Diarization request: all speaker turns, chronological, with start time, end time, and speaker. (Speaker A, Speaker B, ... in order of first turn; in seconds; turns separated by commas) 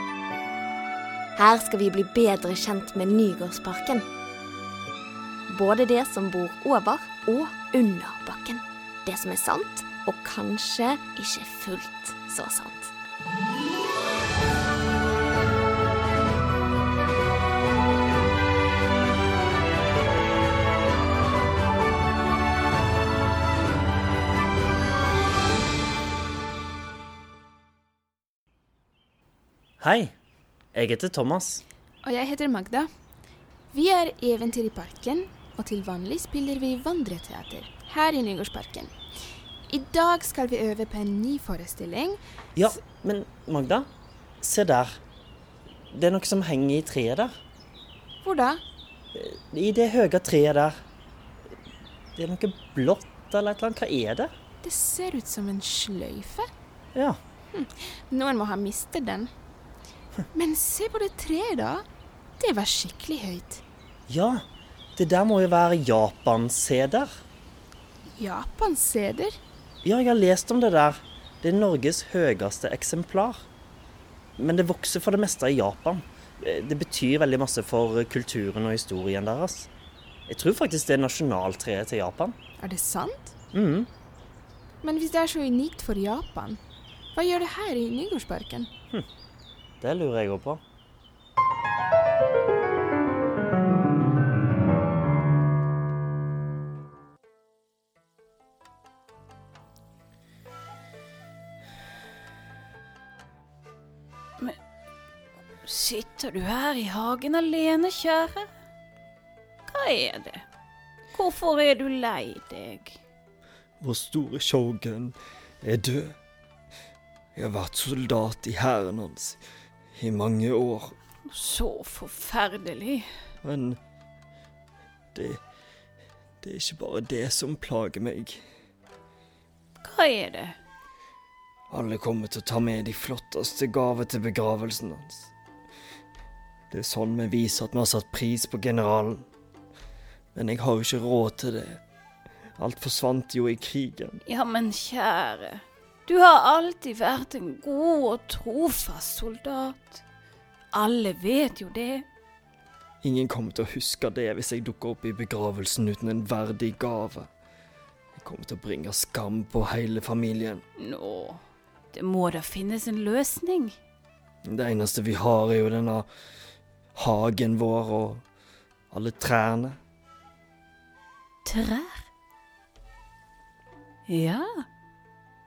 Speaker A: 1.4-4.1, Speaker A: 5.5-12.9, Speaker B: 29.8-30.1, Speaker B: 30.7-31.6, Speaker C: 32.0-32.9, Speaker C: 33.7-38.9, Speaker C: 39.7-42.2, Speaker B: 42.6-43.9, Speaker B: 44.4-45.0, Speaker B: 45.9-47.3, Speaker C: 48.2-48.6, Speaker B: 49.1-50.8, Speaker B: 52.2-54.3, Speaker C: 54.6-56.5, Speaker C: 57.5-59.3, Speaker C: 60.3-61.9, Speaker C: 62.4-63.6, Speaker B: 64.1-64.5, Speaker B: 65.0-67.1, Speaker C: 68.2-69.4, Speaker B: 69.8-73.5, Speaker B: 74.4-79.7, Speaker B: 80.3-82.4, Speaker C: 82.6-83.3, Speaker B: 83.5-83.9, Speaker C: 84.8-86.6, Speaker C: 87.1-88.7, Speaker B: 89.8-90.6, Speaker D: 105.6-108.5, Speaker D: 109.7-110.4, Speaker D: 111.1-113.0, Speaker E: 113.8-116.2, Speaker E: 117.3-119.4, Speaker E: 120.0-121.0, Speaker D: 121.3-123.1, Speaker E: 123.4-123.8, Speaker E: 125.1-125.4, Speaker E: 126.4-128.4, Speaker D: 129.8-130.6, Speaker E: 131.7-135.3, Speaker E: 136.7-139.3, Speaker E: 140.3-141.8, Speaker E: 142.6-144.2, Speaker D: 144.3-150.0, Speaker D: 150.7-152.1, Speaker E: 153.0-157.3, Speaker E: 158.2-160.6, Speaker D: 160.8-161.4, Speaker D: 161.9-163.8, Speaker E: 164.4-166.1, Speaker E: 167.0-168.2, Speaker E: 168.9-169.8, Speaker D: 171.4-172.1, Speaker D: 174.1-174.7